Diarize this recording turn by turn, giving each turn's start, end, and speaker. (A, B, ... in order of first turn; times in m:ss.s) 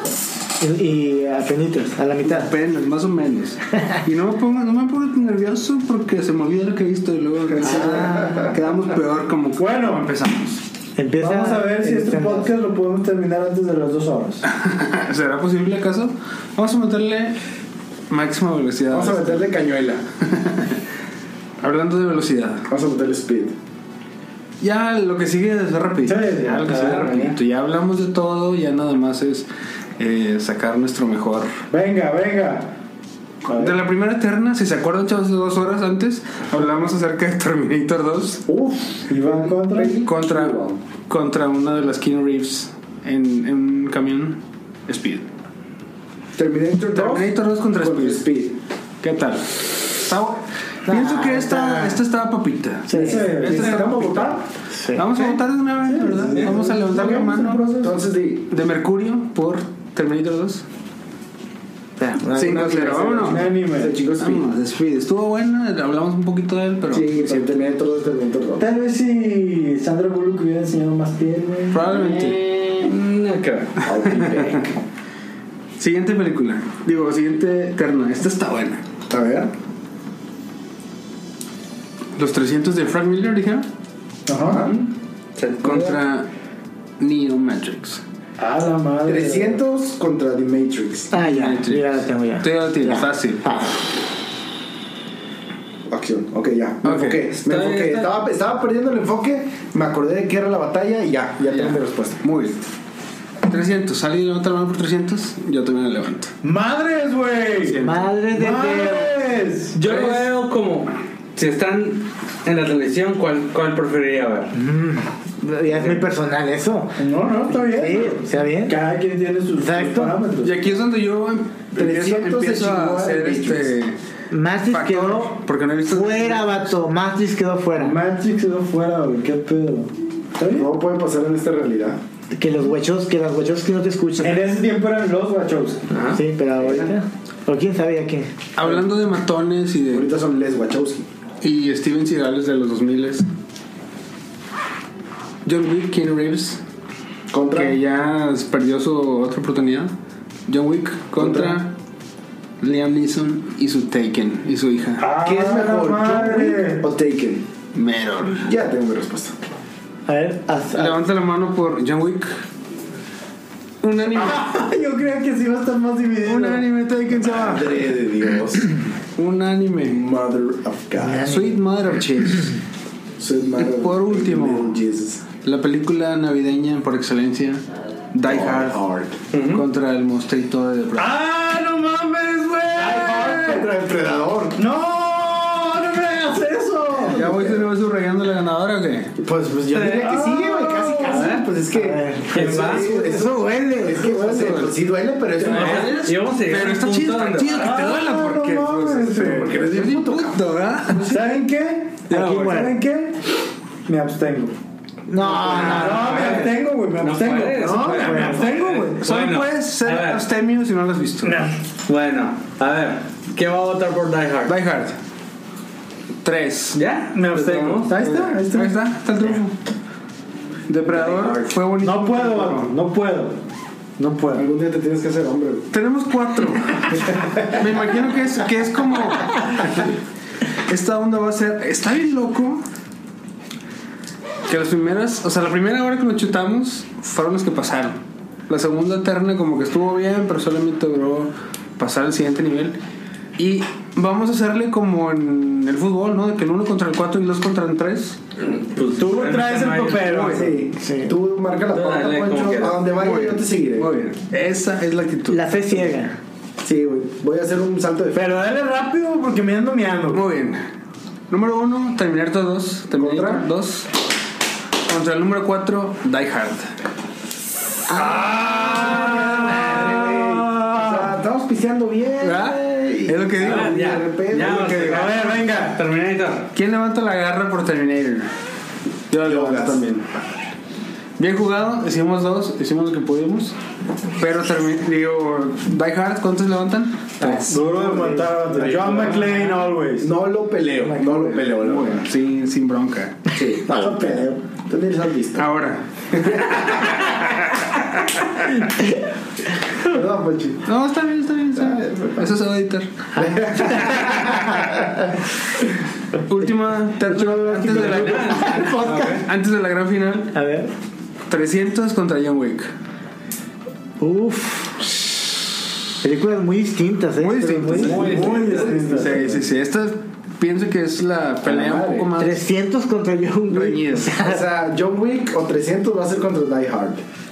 0:00.6-0:02.5 A
0:02.2-0:10.6 B
0:07.6-0:08.6 C
0:07.6-0:08.5 A
0:09.6-0:10.1 D
0:11.0-0:12.5 A
0:11.2-0:14.4 D
0:14.5-0:17.4 B
0:18.1-0:19.5 B
0:18.9-0:20.0 C
0:20.2-0:20.8 B
0:21.6-0:22.6 B
0:22.7-0:23.5 C
0:24.6-0:29.4 B
0:26.0-0:27.1 D
0:26.7-0:27.4 E
0:30.0-0:31.5 B
0:31.7-0:32.7 D
0:33.4-0:33.7 D
0:33.5-0:38.4 B
0:38.5-0:40.8 C
0:39.1-0:39.9 D
0:40.0-0:45.2 B
0:46.4-0:48.6 C
0:46.9-0:48.2 B
0:49.0-0:54.4 B
0:50.9-0:52.0 A
0:52.9-0:54.4 D
0:52.9-0:53.2 A
0:54.7-0:55.0 A
0:54.9-0:57.7 B
0:55.1-0:58.0 D
0:56.3-0:58.5 C
0:58.5-1:00.6 B
1:02.0-1:03.1 A
1:02.3-1:04.5 C
1:02.3-1:03.5 B
1:03.2-1:04.0 D
1:04.2-1:07.5 B
1:06.9-1:08.6 C
1:08.6-1:11.8 D
1:11.7-1:12.4 B
1:12.7-1:13.8 E
1:13.8-1:14.8 C
1:14.2-1:14.5 B
1:15.8-1:18.8 B
1:19.1-1:19.5 C
1:22.2-1:23.7 B
1:24.3-1:24.6 D
1:24.4-1:24.7 C
1:25.4-1:26.0 E
1:25.6-1:26.3 B
1:27.0-1:28.0 B
1:28.4-1:29.6 D
1:29.0-1:31.1 C
1:31.1-1:33.7 A
1:31.2-1:33.7 B
1:35.9-1:42.2 C
1:36.8-1:38.1 B
1:41.5-1:42.6 B
1:43.5-1:46.3 B
1:46.4-1:47.8 D
1:47.6-1:48.1 B
1:47.8-1:49.1 A
1:48.3-1:49.8 D
1:49.7-1:54.5 E
1:49.8-1:50.2 B
1:54.5-1:58.8 A
1:57.0-2:00.7 D
1:59.6-2:00.1 A
2:00.4-2:04.0 B
2:01.7-2:03.7 C
2:04.3-2:05.4 A
2:04.7-2:06.7 B
2:05.9-2:08.0 A
2:07.8-2:10.7 D
2:10.4-2:12.0 C
2:12.3-2:14.4 A
2:14.2-2:15.8 D
2:15.9-2:16.2 E
2:16.1-2:18.3 A
2:16.6-2:16.9 C
2:18.6-2:20.1 B
2:19.9-2:21.1 C
2:21.4-2:23.2 B
2:25.4-2:26.6 B
2:27.3-2:27.8 C
2:27.5-2:29.9 B
2:30.5-2:31.7 B
2:31.2-2:31.6 C
2:32.6-2:35.0 B
2:35.0-2:36.8 D
2:35.2-2:37.4 C
2:37.7-2:38.5 B
2:38.4-2:39.3 C
2:40.1-2:41.0 A
2:40.7-2:42.3 B
2:43.8-2:44.5 B
2:44.1-2:46.6 D
2:46.2-2:47.8 B
2:47.2-2:48.8 C
2:49.2-2:50.0 B
2:49.9-2:51.4 C
2:51.0-2:51.3 A
2:51.1-2:52.6 B
2:53.2-2:55.2 C
2:53.6-2:54.8 B
2:55.4-2:57.6 B
2:58.1-2:58.8 B
2:58.2-2:59.2 C
2:59.3-2:59.6 E
2:59.5-3:01.1 B
3:00.9-3:03.7 D
3:02.8-3:04.6 C
3:04.6-3:07.2 D
3:07.0-3:07.7 C
3:07.0-3:09.1 B
3:09.2-3:16.1 C
3:09.7-3:11.4 D
3:11.0-3:11.4 E
3:11.7-3:14.1 A
3:12.3-3:12.9 E
3:14.1-3:14.8 B
3:15.4-3:17.7 E
3:15.4-3:21.2 B
3:17.5-3:19.5 D
3:19.2-3:21.2 C
3:21.0-3:23.3 D
3:22.1-3:22.8 A
3:23.8-3:24.5 D
3:25.1-3:26.5 A
3:25.2-3:30.2 E
3:25.6-3:29.1 D
3:27.7-3:28.5 A
3:27.8-3:31.5 B
3:31.2-3:31.6 D
3:31.9-3:34.5 E
3:34.5-3:35.0 B
3:36.2-3:36.8 B
3:36.7-3:38.1 E
3:37.1-3:38.7 D
3:38.1-3:39.6 B
3:40.7-3:42.7 B
3:40.9-3:41.5 C
3:41.8-3:43.4 D
3:44.0-3:44.5 D
3:44.3-3:45.6 C
3:45.7-3:50.0 B
3:47.1-3:47.6 C
3:50.7-3:52.6 B
3:54.5-4:02.8 B
4:03.4-4:08.2 B
4:08.4-4:10.1 E
4:09.0-4:10.5 D
4:09.8-4:10.4 B
4:10.2-4:13.9 C
4:10.8-4:11.1 A
4:11.7-4:12.9 E
4:12.9-4:15.5 B
4:15.3-4:16.2 A
4:16.6-4:18.2 C
4:18.1-4:20.2 D
4:20.1-4:20.6 B
4:21.3-4:23.9 B
4:23.0-4:23.5 C
4:24.9-4:26.7 B
4:27.9-4:30.3 B
4:27.9-4:31.2 D
4:27.9-4:34.9 C
4:32.2-4:33.7 B
4:33.4-4:36.5 E
4:34.4-4:35.1 B
4:34.8-4:35.8 D
4:36.5-4:38.3 B
4:39.1-4:40.0 B
4:39.2-4:39.9 C
4:41.2-4:43.6 B
4:44.2-4:47.1 B
4:47.2-4:50.1 D
4:47.2-4:48.2 A
4:47.3-4:52.1 C
4:50.9-4:53.5 B
4:53.6-4:55.5 C
4:53.7-4:54.4 A
4:55.4-4:58.4 B
4:59.8-5:00.6 C
5:00.6-5:03.0 B
5:01.5-5:02.3 C
5:03.2-5:04.9 C
5:03.6-5:04.4 B
5:06.2-5:10.3 B
5:07.0-5:09.2 A
5:07.6-5:09.2 E
5:10.3-5:10.7 A
5:11.3-5:12.7 B
5:14.0-5:14.8 A
5:16.0-5:19.4 A
5:17.2-5:22.4 B
5:17.7-5:19.2 D
5:17.7-5:18.9 C
5:21.4-5:22.1 C
5:22.2-5:24.4 A
5:23.5-5:24.1 B
5:24.2-5:27.0 C